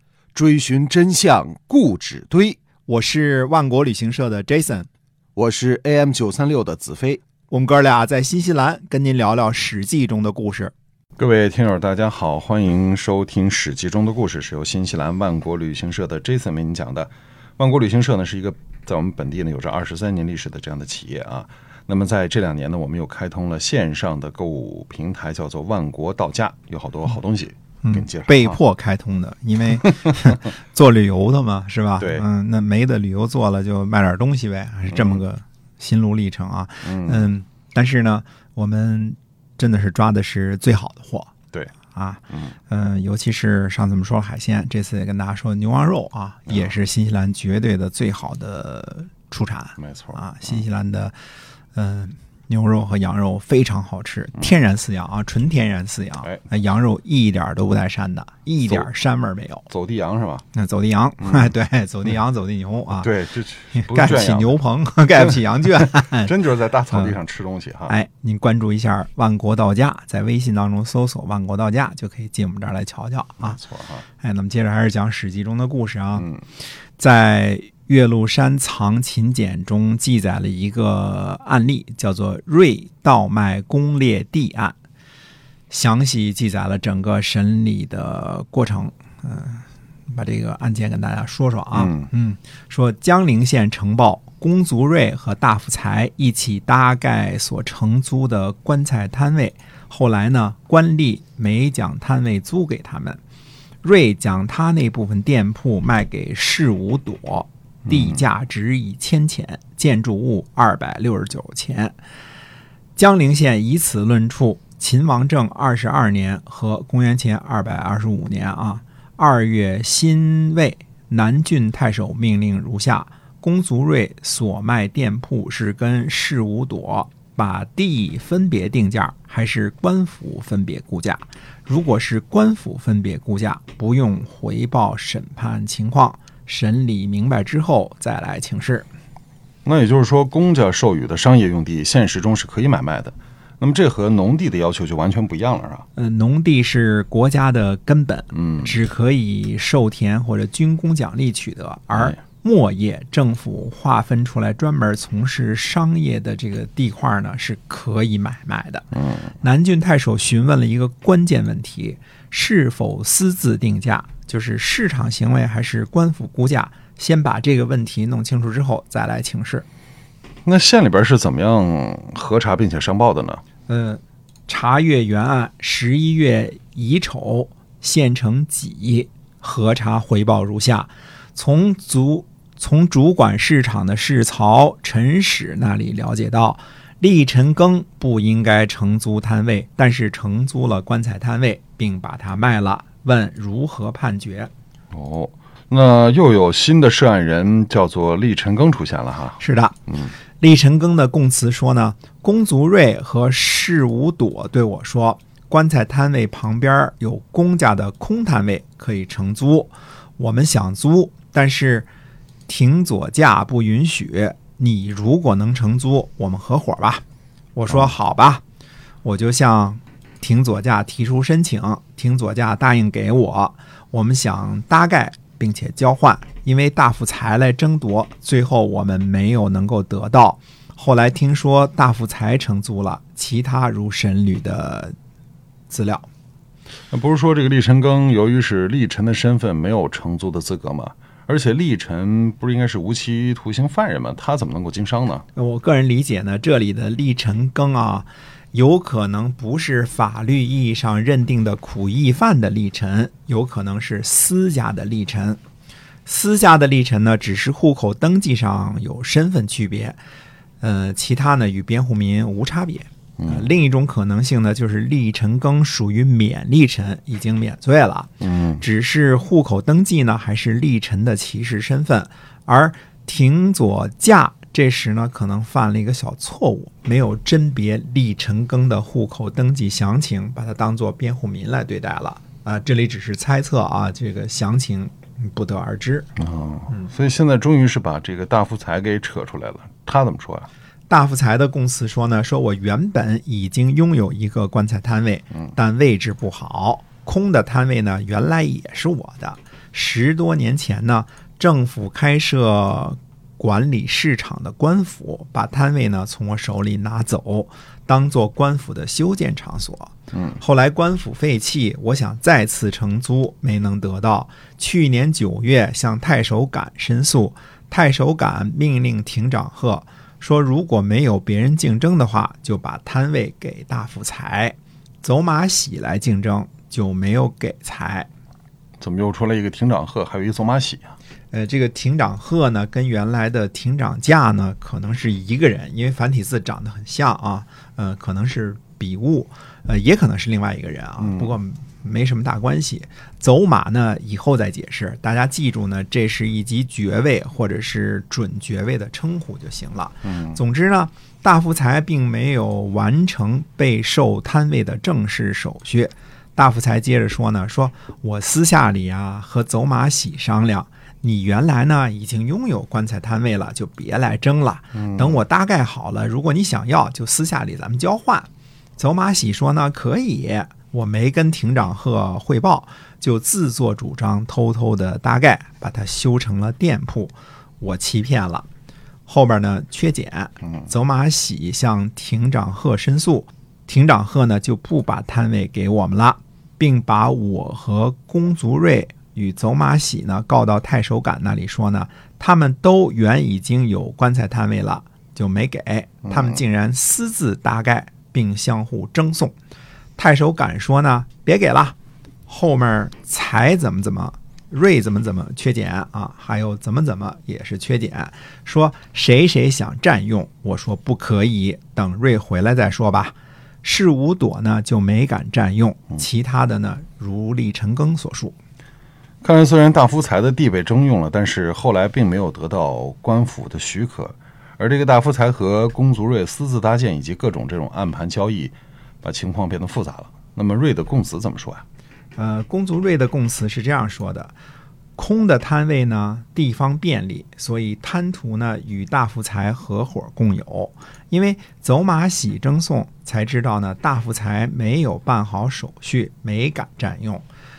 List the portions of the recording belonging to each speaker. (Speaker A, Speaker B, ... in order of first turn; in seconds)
Speaker A: 0.3-2.6, 5.3-7.2
Speaker B: 2.9-4.9, 7.5-10.7, 27.8-41.3, 41.9-51.1, 51.7-59.7, 60.5-63.1, 63.8-66.3, 67.9-73.6, 74.2-76.3, 77.0-84.8, 85.7-103.2, 103.8-112.0, 113.0-138.9, 145.9-169.7, 173.7-194.5, 199.4-199.8, 200.4-211.9, 212.5-217.0, 217.5-218.4, 219.0-234.9, 235.7-236.1, 245.3-255.4, 256.1-260.0, 260.6-286.1, 290.9-328.1, 331.3-378.4, 379.1-399.3, 400.0-401.7, 402.3-418.4, 432.1-434.3, 434.9-447.2
Speaker C: 11.2-28.6, 32.0-32.2, 34.9-35.2, 36.8-37.3, 42.3-42.5, 49.8-50.6, 59.7-60.4, 61.2-61.5, 63.0-64.5, 65.2-68.0, 73.4-74.0, 76.2-76.4, 91.7-92.1, 107.9-108.2, 139.6-145.8, 148.4-148.7, 170.4-173.4, 194.9-200.1, 236.9-245.2, 263.2-263.5, 268.2-268.6, 286.2-290.5, 310.1-310.4, 328.8-330.9, 341.0-341.3, 350.0-350.4, 364.7-365.2, 419.2-431.6